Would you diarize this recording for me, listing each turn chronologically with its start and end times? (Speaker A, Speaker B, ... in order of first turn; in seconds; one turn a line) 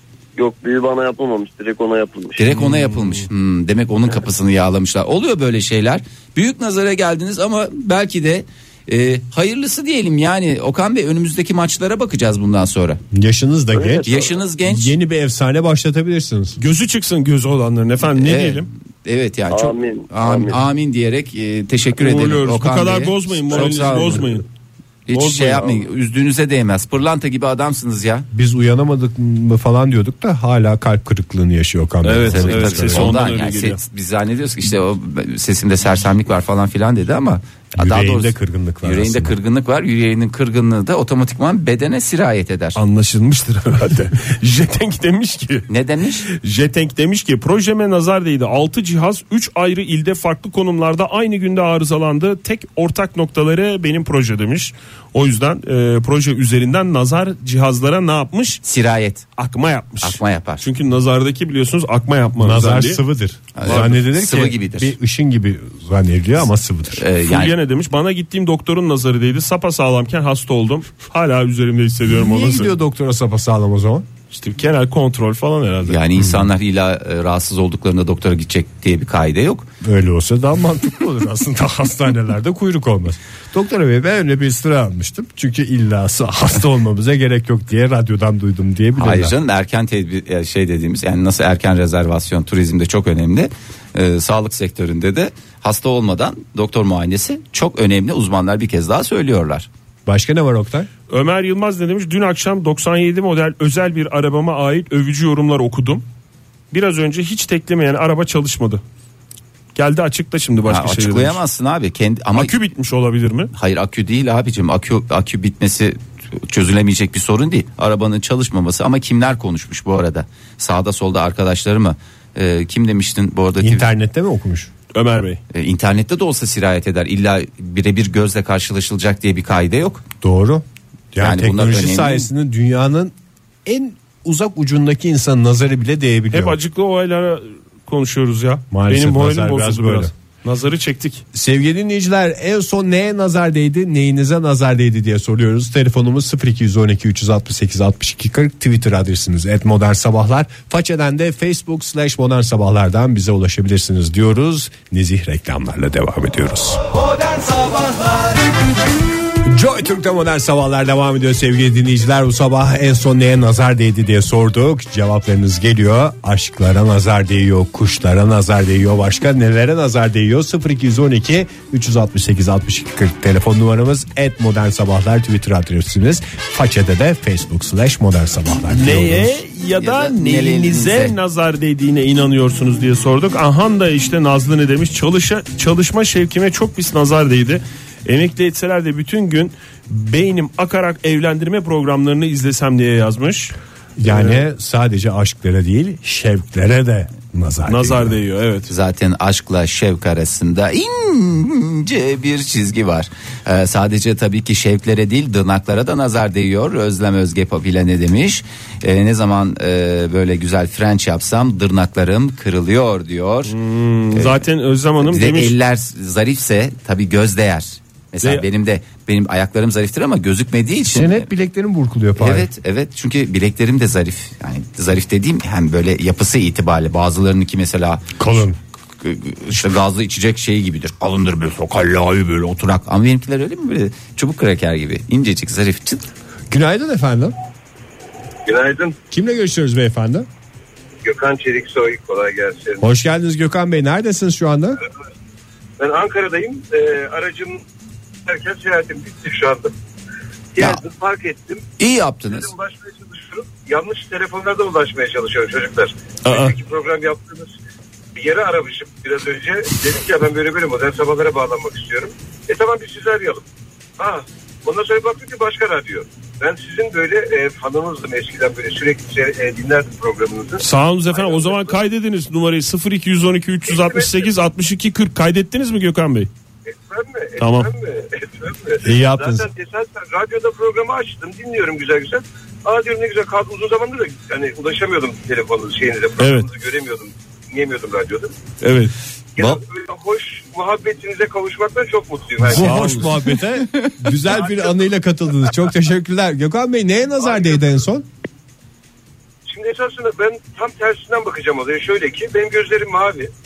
Speaker A: 0.3-2.4
Speaker B: 2.4-13.0
Speaker C: 2.6-3.2
Speaker D: 13.1-14.1
Speaker A: 13.7-14.4
Speaker B: 14.0-14.9
Speaker D: 14.6-16.6
Speaker C: 16.6-18.7
Speaker B: 18.1-24.3
Speaker A: 19.5-20.6
Speaker C: 22.0-24.4
Speaker B: 25.1-28.3
Speaker C: 25.1-25.8
Speaker D: 28.3-33.2
Speaker C: 32.0-33.8
Speaker B: 32.2-42.8
Speaker D: 37.8-39.4
Speaker C: 42.8-45.7
Speaker B: 45.7-46.2
Speaker C: 46.3-58.6
Speaker B: 58.6-59.2
Speaker C: 59.4-63.0
Speaker B: 60.0-60.6
Speaker D: 62.4-67.0
Speaker B: 63.5-64.9
Speaker C: 63.6-64.0
Speaker B: 67.0-67.5
Speaker C: 67.2-72.7
Speaker D: 72.0-74.0
Speaker C: 74.3-76.0
Speaker B: 75.8-79.7
Speaker D: 76.2-76.5
Speaker D: 79.8-89.3
Speaker B: 89.0-99.7
Speaker D: 100.0-100.9
Speaker C: 101.1-106.0
Speaker C: 106.7-108.8
Speaker C: 109.7-111.4
Speaker B: 110.7-112.5
Speaker C: 112.3-113.5
Speaker B: 113.5-123.9
Speaker D: 123.6-124.7
Speaker C: 124.9-125.4
Speaker B: 125.5-130.0
Speaker D: 130.2-133.1
Speaker B: 131.2-132.3
Speaker D: 133.6-136.6
Speaker C: 136.3-141.2
Speaker D: 138.7-140.1
Speaker D: 141.3-156.9
Speaker B: 157.3-158.1
Speaker D: 159.5-179.3
Speaker C: 178.7-194.4
Speaker B: 179.8-181.2
Speaker D: 194.0-198.2
Speaker C: 197.7-198.7
Speaker B: 198.7-213.5
Speaker C: 213.5-215.5
Speaker B: 214.1-214.4
Speaker B: 215.0-221.3
Speaker D: 220.9-222.5
Speaker B: 222.2-228.1
Speaker D: 228.2-228.6
Speaker B: 229.0-236.0
Speaker D: 236.5-237.3
Speaker E: 238.4-239.0
Speaker D: 239.1-240.3
Speaker E: 241.0-242.8
Speaker D: 242.8-244.8
Speaker E: 245.8-247.6
Speaker E: 248.2-249.7
Speaker E: 250.5-251.6
Speaker B: 251.8-252.5
Speaker E: 252.2-257.5
Speaker C: 256.2-256.5
Speaker E: 258.1-263.4
Speaker E: 264.0-271.8
Speaker C: 270.6-276.3
Speaker E: 273.7-274.2
Speaker E: 276.7-288.3
Speaker C: 277.4-277.7
Speaker D: 278.8-279.5
Speaker C: 286.2-286.5
Speaker C: 288.6-288.9
Speaker E: 289.4-293.0
Speaker C: 292.4-293.1
Speaker D: 292.4-298.1
Speaker E: 294.3-294.8
Speaker E: 297.2-297.6
Speaker E: 299.5-303.3